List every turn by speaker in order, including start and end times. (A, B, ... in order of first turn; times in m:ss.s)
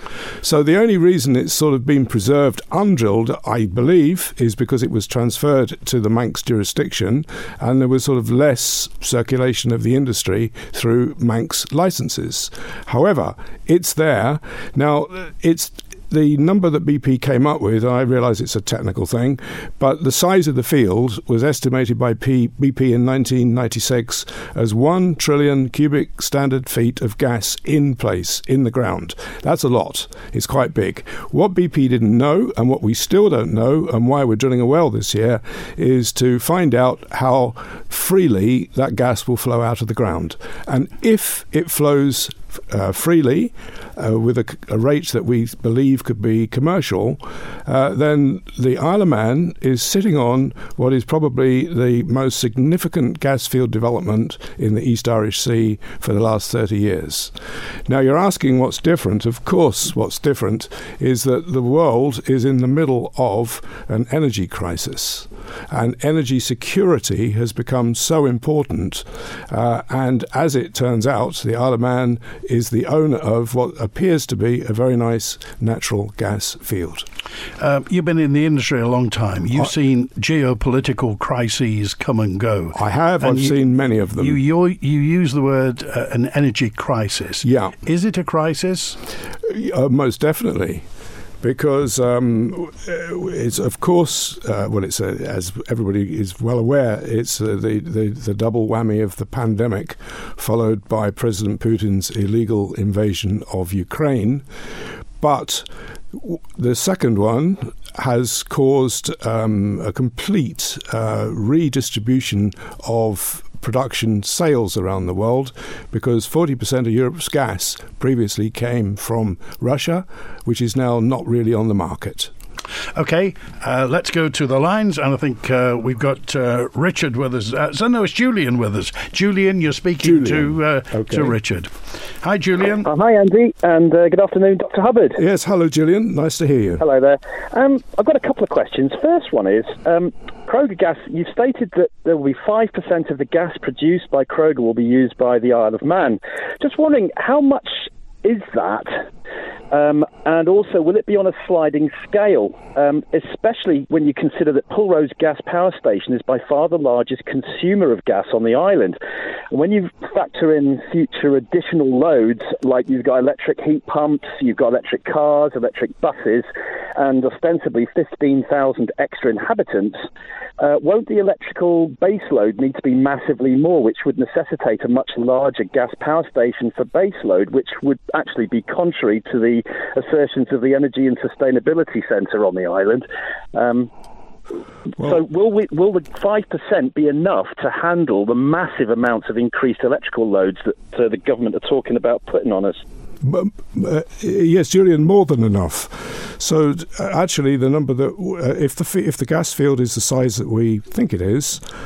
0:00.4-0:57.3 A
0:57.9-1:17.1 A
1:17.6-1:23.6 B
1:22.7-1:24.4 A
1:24.2-1:29.0 B
1:27.4-1:27.8 A
1:29.4-1:30.8 A
1:31.4-1:44.4 A
1:45.2-2:02.3 A
2:02.9-2:12.9 B
2:10.0-2:11.4 A
2:12.8-2:15.2 C
2:15.2-2:16.8 A
2:16.8-2:29.0 C
2:29.7-2:39.0 C
2:39.5-2:46.4 C
2:47.0-2:50.0 C
2:50.6-3:03.9 C
3:05.0-3:12.8 C
3:13.2-3:21.6 A